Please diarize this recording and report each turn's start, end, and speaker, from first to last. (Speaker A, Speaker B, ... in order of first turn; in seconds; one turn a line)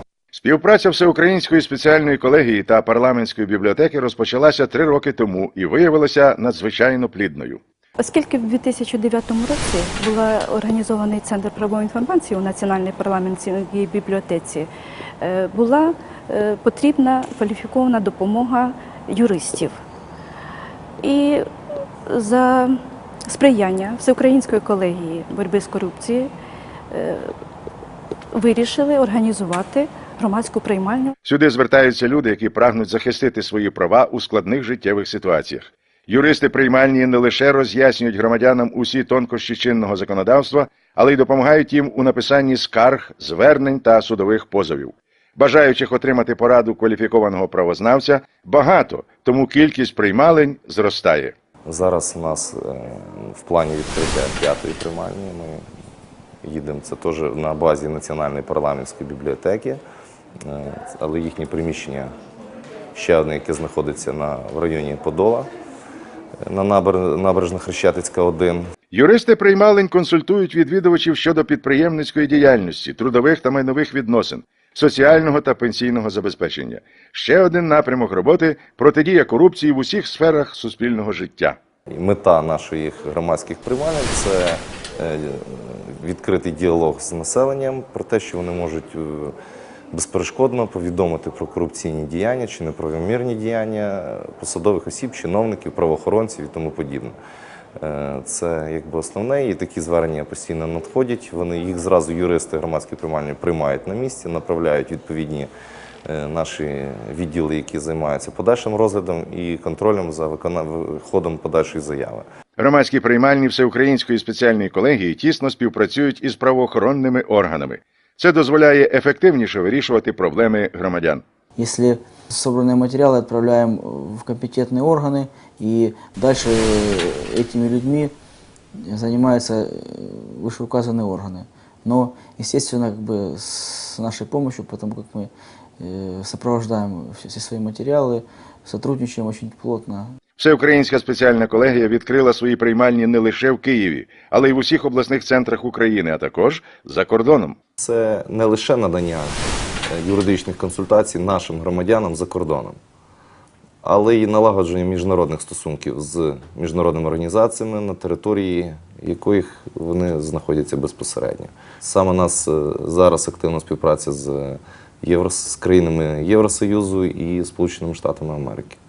Speaker A: 0.3-7.6
Speaker B: 8.0-14.7
Speaker B: 15.2-19.8
Speaker B: 21.0-21.5
Speaker B: 22.1-26.3
Speaker B: 26.9-27.3
Speaker B: 28.3-31.1
Speaker A: 31.3-51.4
Speaker C: 51.7-55.6
Speaker C: 56.4-59.8
Speaker C: 60.4-62.1
Speaker C: 62.9-65.5
Speaker C: 66.4-68.7
Speaker A: 68.9-81.6
Speaker C: 81.9-89.3
Speaker C: 89.9-97.2
Speaker C: 97.8-105.5
Speaker C: 106.1-112.2
Speaker A: 112.6-121.2
Speaker D: 121.6-128.1
Speaker D: 128.8-140.1
Speaker A: 140.4-147.6
Speaker C: 147.8-152.8
Speaker C: 153.8-168.8